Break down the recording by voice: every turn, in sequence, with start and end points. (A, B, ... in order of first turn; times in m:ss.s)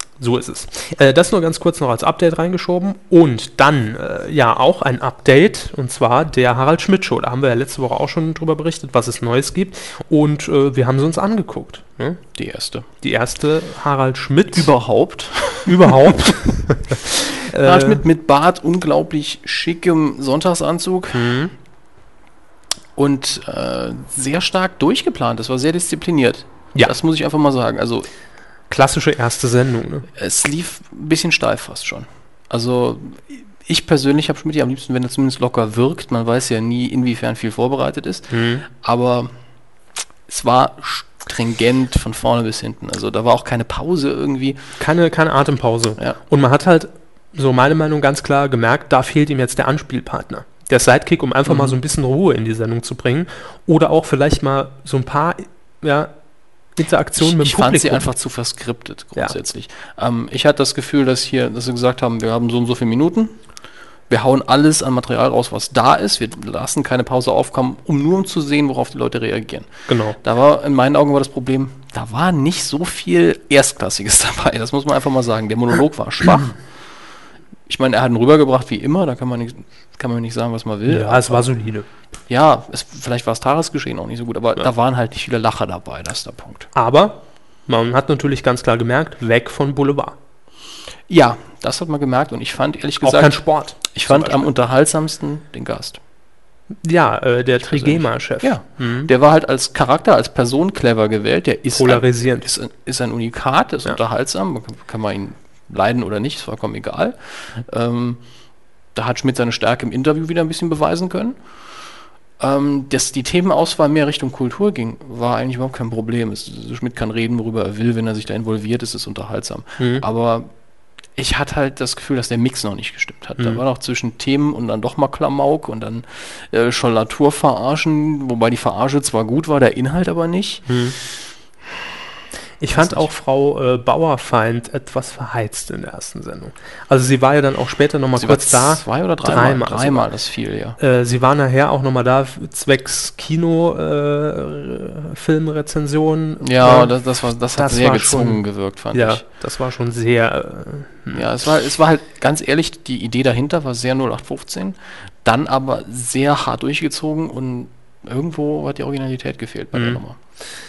0:00.2-0:12.2 A
0:12.3-0:12.9 B
0:13.0-0:14.7 A
0:14.5-0:16.3 B
0:15.6-0:18.0 A
0:17.5-0:21.3 B
0:21.1-0:21.5 A
0:23.0-0:28.1 B
0:28.7-0:30.1 A
0:30.2-0:39.3 B
0:38.3-0:38.6 A
0:40.3-0:44.6 B
0:44.8-0:56.1 A
0:51.5-0:51.8 B
0:56.8-0:58.1 A
0:57.2-1:03.4 B
1:04.1-1:16.6 B
1:09.9-1:10.2 A
1:17.7-1:21.5 B
1:20.9-1:21.8 A
1:22.3-1:26.7 B
1:26.7-1:30.2 A
1:31.1-1:36.0 B
1:33.0-1:34.5 A
1:36.8-1:39.1 A
1:37.6-1:48.2 B
1:41.7-1:42.5 A
1:48.9-1:51.4 B
1:52.4-2:00.5 B
1:59.8-2:00.0 A
2:01.2-2:10.7 B
2:10.7-2:11.0 A
2:12.6-2:20.1 A
2:12.7-2:13.1 B
2:18.2-2:20.8 B
2:20.8-2:26.9 A
2:26.4-2:29.2 B
2:27.5-2:28.4 A
2:28.9-2:31.3 A
2:31.1-2:40.2 B
2:39.7-2:40.0 A